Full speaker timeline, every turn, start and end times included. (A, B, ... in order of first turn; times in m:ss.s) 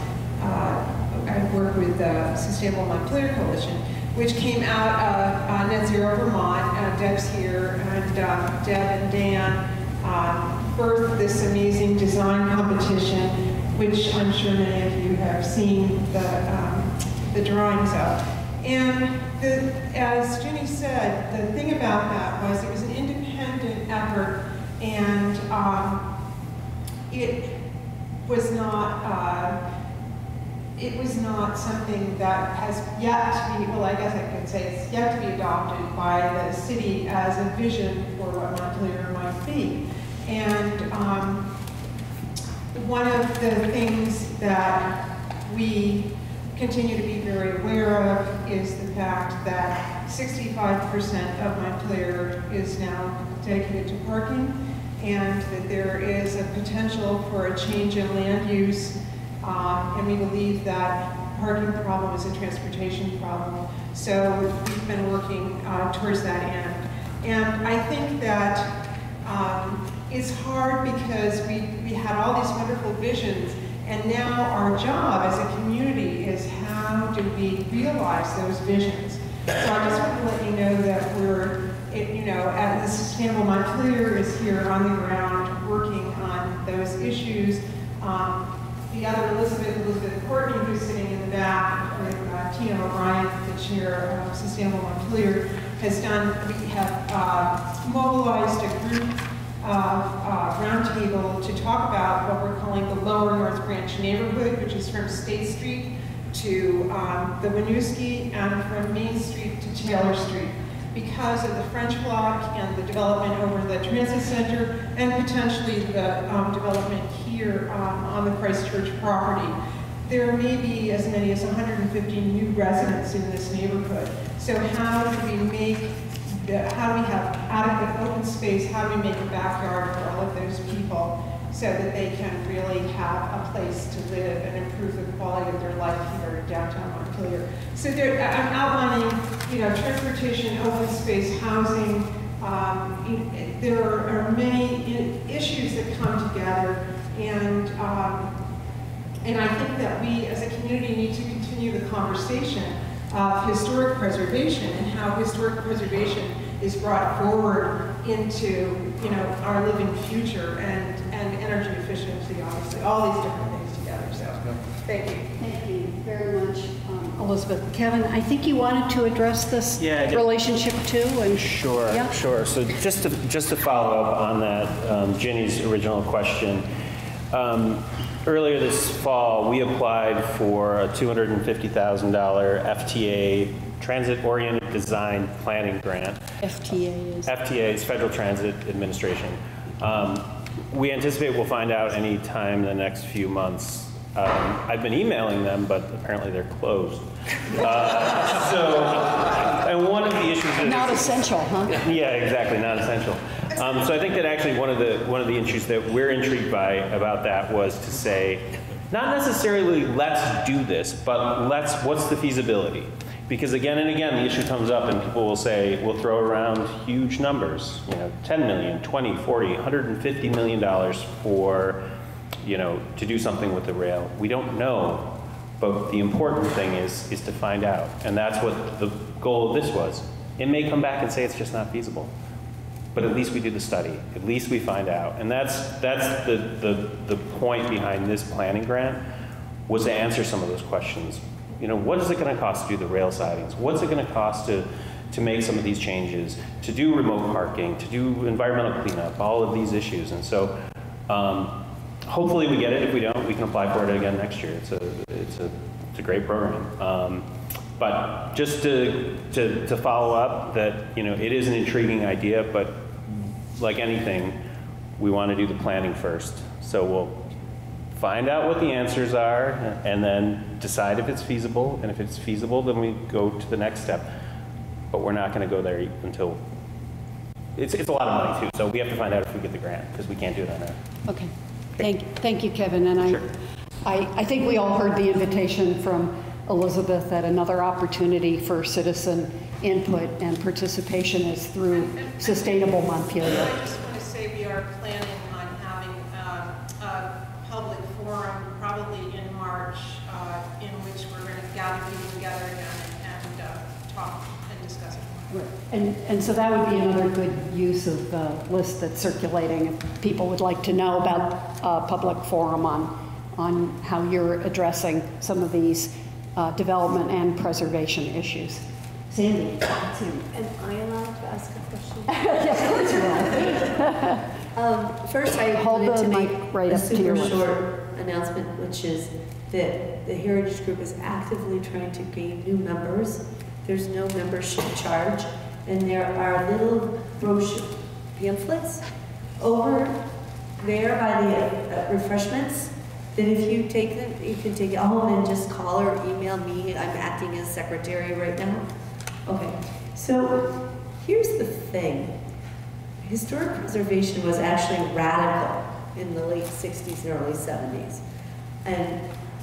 0:00.4-0:26.0 A
0:27.1-0:27.5 A
0:28.2-0:29.6 A
0:30.8-0:41.4 A
0:42.7-1:08.7 A
1:09.2-1:59.6 A
2:00.1-2:28.3 A
2:29.2-2:45.1 A
2:45.4-2:52.1 B
2:49.8-2:50.2 C
2:51.3-2:56.7 C
2:57.3-3:06.2 C
3:07.2-3:41.9 C
3:20.6-3:21.8 B
3:42.4-3:52.1 C
3:52.9-3:59.0 C
3:59.7-4:10.6 C
4:11.1-4:24.4 C
4:25.0-4:27.2 C
4:27.9-4:34.1 C
4:34.9-4:36.4 C
4:37.6-4:40.8 C
4:41.1-4:43.2 B
4:43.0-4:43.2 C
4:43.8-4:53.5 B
4:51.7-5:05.3 A
5:05.3-5:19.7 B
5:19.7-5:23.8 D
5:22.1-5:24.2 B
5:24.5-5:38.8 D
5:25.5-5:27.4 B
5:39.4-5:40.0 D
5:40.6-5:48.6 D
5:49.2-5:52.1 D
5:53.0-5:58.0 D
5:58.6-5:59.0 D